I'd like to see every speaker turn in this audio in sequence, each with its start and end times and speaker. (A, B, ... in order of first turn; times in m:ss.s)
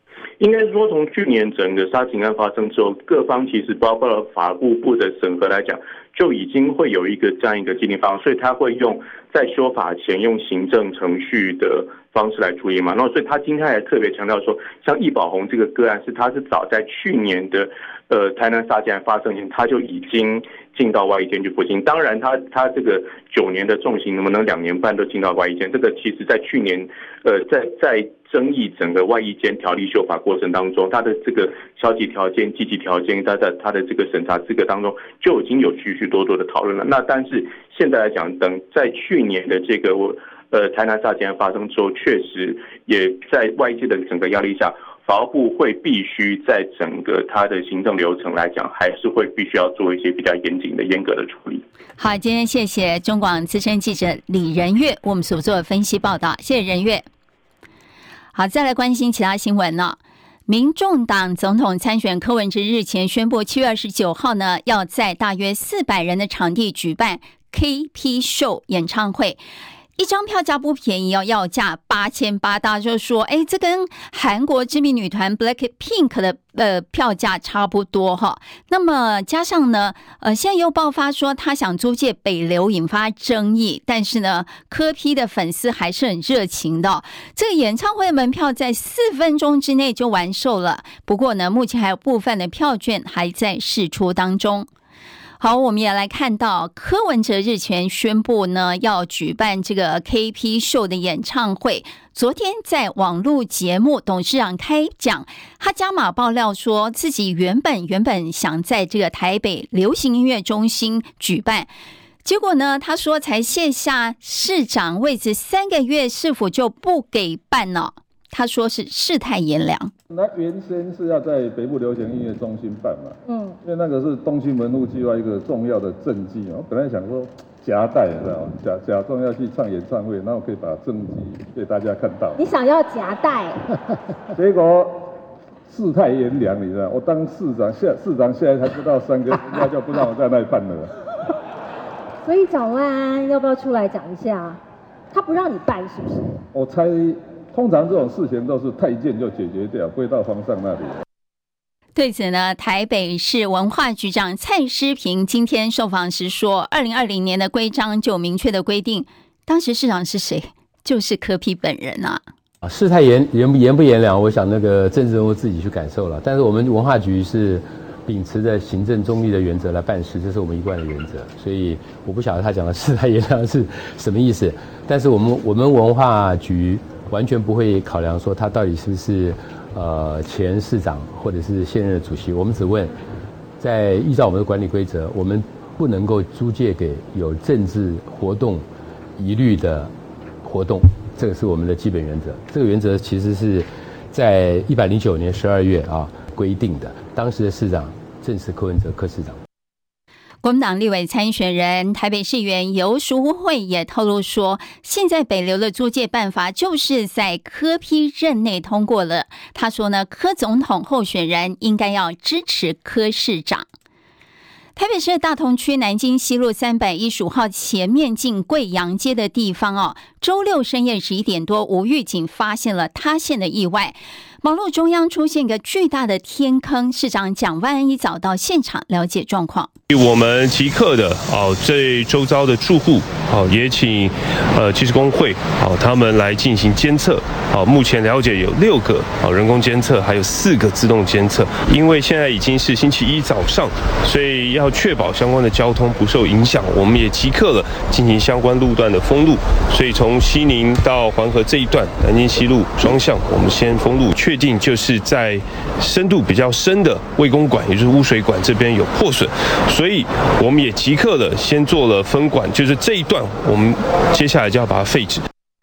0:00.4-0:51.6 A
0:52.0-0:57.0 B
0:58.3-1:09.4 B
1:10.0-1:34.7 B
1:35.4-1:51.7 B
1:52.2-1:59.9 B
2:00.1-2:12.4 C
2:03.2-2:03.6 D
2:12.4-2:13.6 D
2:14.3-2:15.1 C
2:15.7-2:20.9 C
2:22.2-2:24.6 D
2:25.1-2:26.4 D
2:26.5-2:31.0 C
2:31.9-2:42.2 B
2:42.6-3:02.9 E
3:03.6-3:08.6 E
3:09.2-3:09.9 E
3:10.4-3:19.4 E
3:20.4-3:33.6 B
3:34.8-3:49.7 B
3:49.9-4:25.2 F